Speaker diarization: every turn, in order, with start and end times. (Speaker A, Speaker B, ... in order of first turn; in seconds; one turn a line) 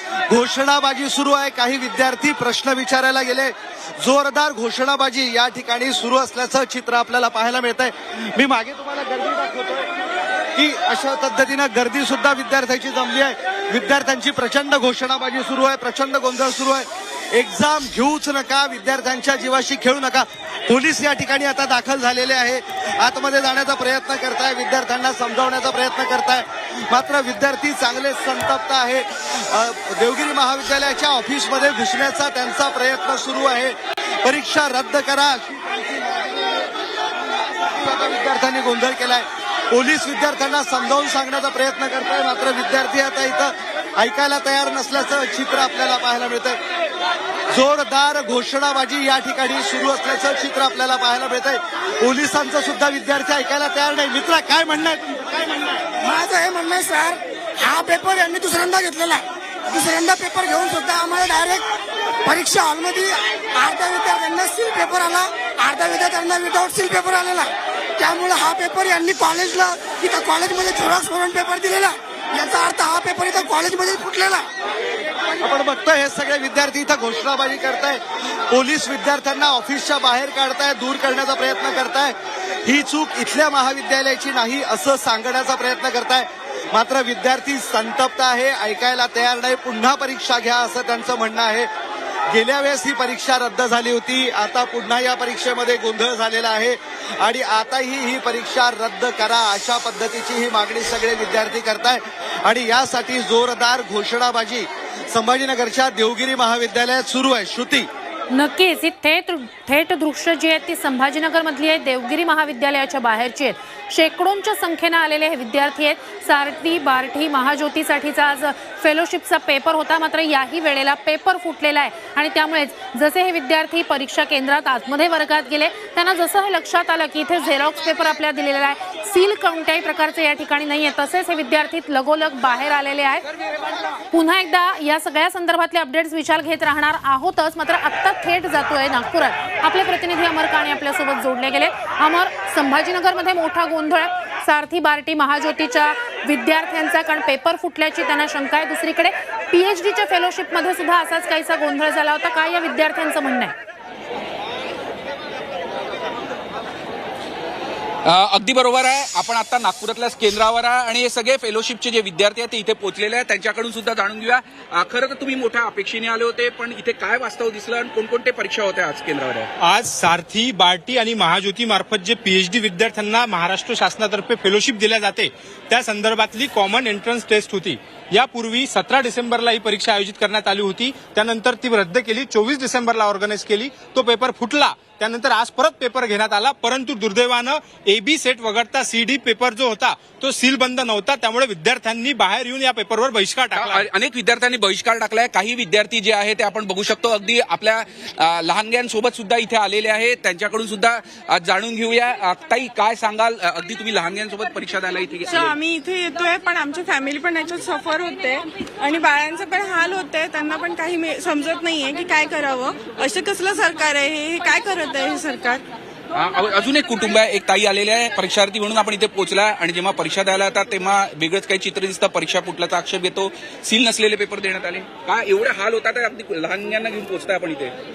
Speaker A: 0.3-9.9
Speaker A: 10.6-36.7
Speaker A: 37.7-46.6
Speaker A: 47.5-55.8
Speaker B: 56.0-61.6
Speaker B: 62.2-74.4
Speaker A: 75.4-91.7
Speaker A: 92.3-107.9
Speaker C: 108.3-133.2
Speaker C: 134.1-153.5
Speaker D: 158.1-169.5
Speaker E: 169.7-193.4
Speaker D: 193.5-205.6
Speaker F: 205.3-215.6
Speaker D: 216.1-227.7